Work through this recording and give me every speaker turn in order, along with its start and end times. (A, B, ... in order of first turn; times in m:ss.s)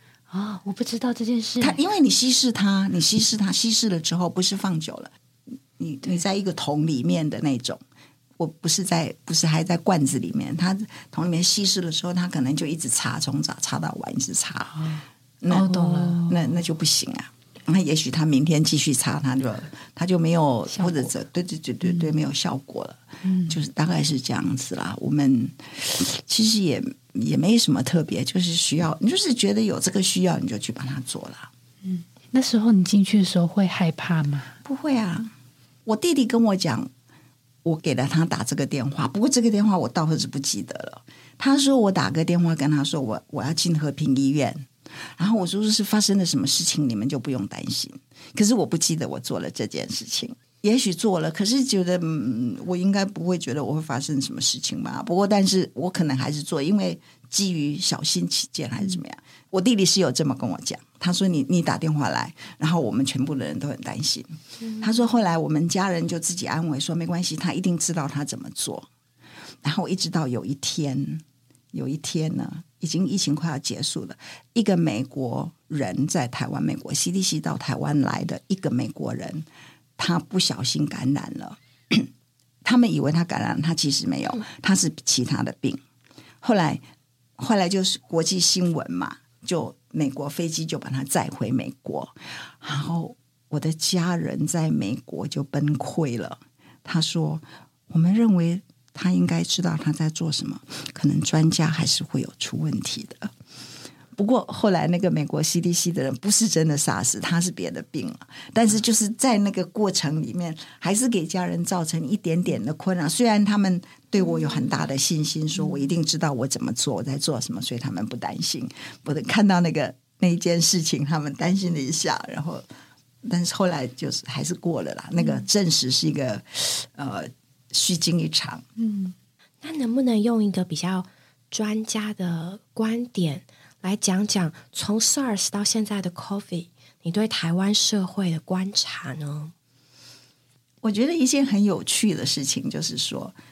0:00.3-0:01.8 A
0:01.6-0:05.1 B
0:05.8-0:07.8 B
0:08.4-0:31.5 B
0:15.5-0:16.5 A
0:20.8-0:21.0 A
0:23.2-0:23.6 A
0:31.8-0:34.6 A
0:34.6-0:35.3 B
0:35.8-0:36.9 B
0:37.6-1:08.9 B
1:04.6-1:04.9 C
1:09.6-1:19.5 B
1:20.0-1:22.1 B
1:22.6-1:25.8 B
1:26.4-1:26.8 B
1:27.4-1:43.3 B
1:44.2-2:02.6 B
1:54.4-1:54.8 C
2:03.2-2:08.6 B
2:08.8-2:09.1 A
2:09.6-2:19.5 C
2:20.8-2:23.4 B